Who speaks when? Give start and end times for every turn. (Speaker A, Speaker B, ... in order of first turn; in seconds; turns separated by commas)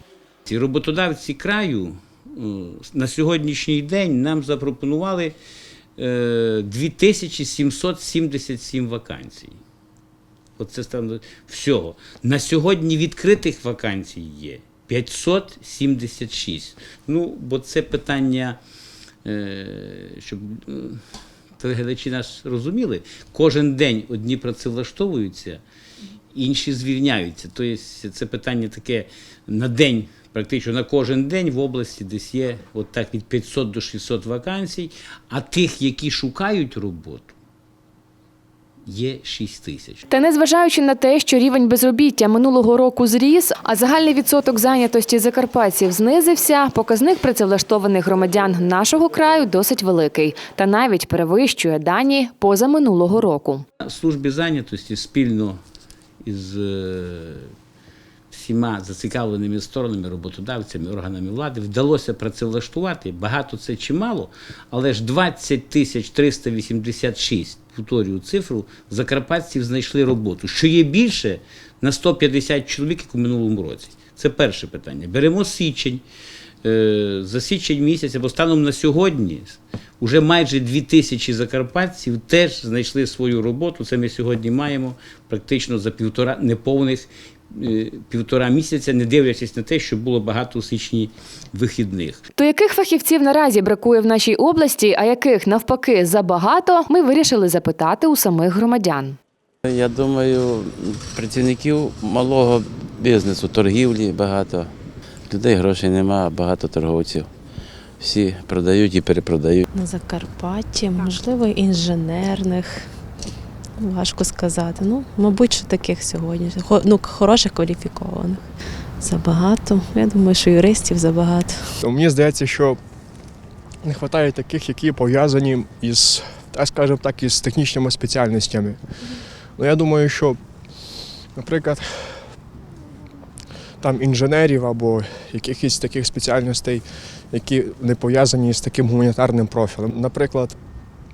Speaker A: 0.5-5.3, Speaker A: 6.0-9.6, Speaker A: 10.6-18.6, Speaker A: 19.2-21.0, Speaker A: 21.6-25.6, Speaker A: 26.3-37.3, Speaker A: 38.9-40.0, Speaker B: 40.1-53.6, Speaker A: 53.8-55.6, Speaker A: 56.2-57.5, Speaker A: 58.3-76.0, Speaker A: 76.6-92.2, Speaker B: 92.4-99.2, Speaker C: 99.6-104.7, Speaker C: 105.3-107.3, Speaker C: 108.0-109.7, Speaker D: 109.7-112.9, Speaker D: 113.8-118.4, Speaker D: 119.0-121.6, Speaker E: 121.8-122.8, Speaker E: 123.8-128.8, Speaker E: 129.6-130.4, Speaker E: 131.3-131.8, Speaker E: 133.8-140.6